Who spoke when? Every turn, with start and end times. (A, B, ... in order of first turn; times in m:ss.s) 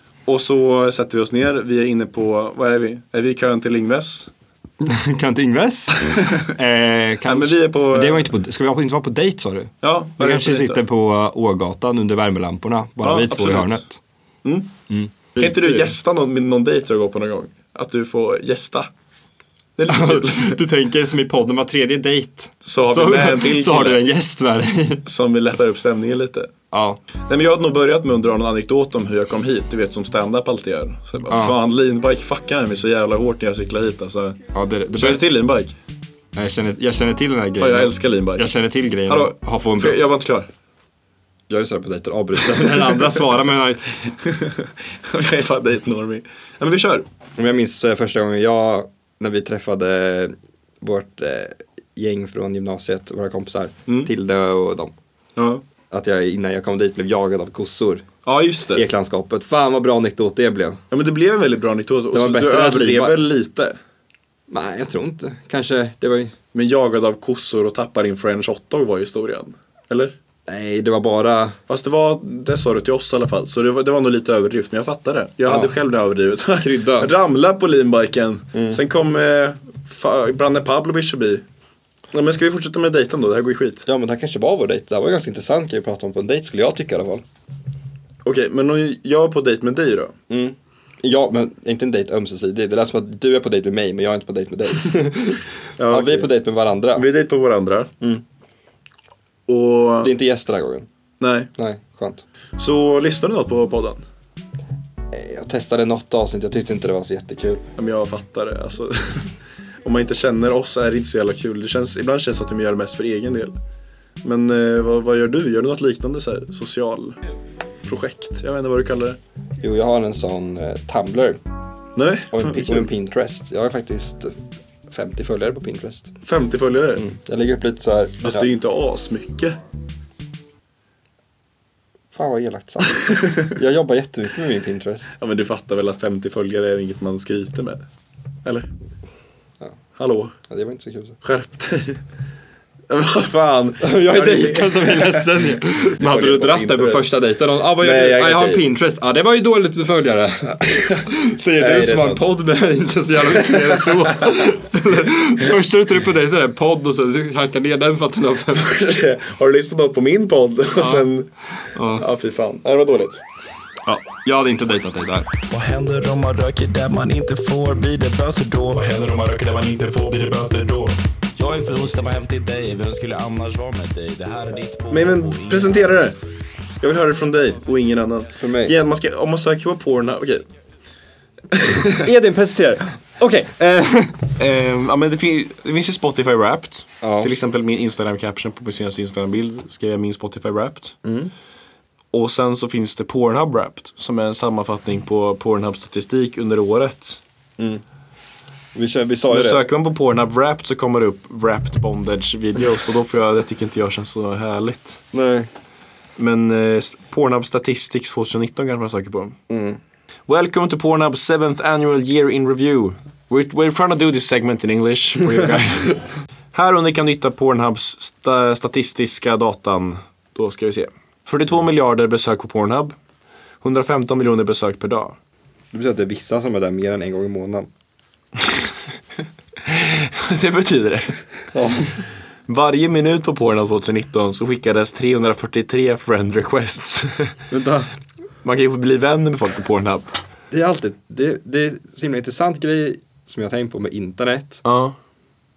0:00.3-0:04.3 A
0:04.8-0:14.0 B
0:07.2-0:08.3 A
0:09.8-0:10.8 A
0:13.0-0:13.8 A
0:14.4-0:14.7 A
0:14.9-0:15.9 B
0:15.4-0:18.9 A
0:19.8-0:20.6 A
0:19.9-0:25.0 B
0:22.6-0:24.0 A
0:25.0-0:26.5 A
0:26.7-0:27.0 B
0:27.3-0:35.7 A
0:31.3-0:31.6 B
0:34.5-0:35.2 B
0:36.4-0:40.0 B
0:37.6-0:38.5 A
0:39.1-0:40.5 A
0:41.5-0:44.0 B
0:42.5-0:43.0 A
0:44.2-0:47.1 A
0:47.4-0:55.0 B
0:55.4-0:55.6 A
0:55.9-0:58.1 B
0:58.2-0:58.9 A
0:58.7-1:00.8 B
1:00.9-1:03.8 A
1:02.1-1:03.2 B
1:04.5-1:06.3 B
1:06.5-1:10.1 A
1:10.5-1:11.6 B
1:11.7-1:21.4 A
1:15.4-1:15.7 B
1:16.6-1:17.1 B
1:18.5-1:18.8 B
1:22.1-1:23.8 A
1:23.9-1:27.2 B
1:28.2-1:30.2 A
1:30.3-1:37.1 B
1:35.8-1:36.3 A
1:37.0-1:37.9 A
1:39.5-1:40.1 A
1:40.0-1:40.9 B
1:41.2-1:41.5 A
1:41.6-1:42.2 B
1:42.6-1:44.0 A
1:45.1-1:47.6 B
1:47.8-1:49.3 A
1:49.8-1:53.6 A
1:54.2-1:57.2 A
1:57.8-1:59.2 A
1:59.6-2:01.4 B
2:02.0-2:02.9 A
2:02.3-2:04.4 B
2:04.9-2:06.1 B
2:06.2-2:07.1 A
2:07.0-2:08.5 B
2:08.2-2:09.6 A
2:12.1-2:15.1 B
2:13.0-2:13.4 A
2:15.2-2:17.8 A
2:20.0-2:20.4 A
2:20.5-2:21.2 B
2:21.2-2:22.0 A
2:22.9-2:27.1 A
2:23.8-2:38.7 B
2:27.8-2:28.7 A
2:30.6-2:32.2 A
2:33.3-2:34.3 A
2:38.5-2:41.3 A
2:40.8-2:41.1 B
2:41.7-2:42.1 B
2:42.0-2:43.2 A
2:43.9-2:45.3 B
2:45.5-2:49.0 C
2:48.9-2:51.0 A
2:51.4-2:56.1 C
2:54.9-2:56.2 A
2:56.8-3:00.5 A
2:58.4-2:58.7 B
3:01.5-3:02.1 A
3:01.9-3:04.3 B
3:04.4-3:11.0 A
3:07.0-3:07.3 B
3:11.0-3:11.3 B
3:12.1-3:17.2 A
3:18.7-3:19.6 B
3:19.3-3:25.0 A
3:25.1-3:25.5 B
3:26.2-3:29.4 A
3:29.5-3:29.8 B
3:30.3-3:43.0 A
3:43.6-3:45.2 A
3:45.7-3:47.7 B
3:49.6-3:51.2 A
3:51.5-3:52.0 B
3:52.5-3:57.4 A
3:57.5-3:57.9 B
3:58.4-4:00.2 A
4:00.5-4:04.6 B
4:04.6-4:05.0 A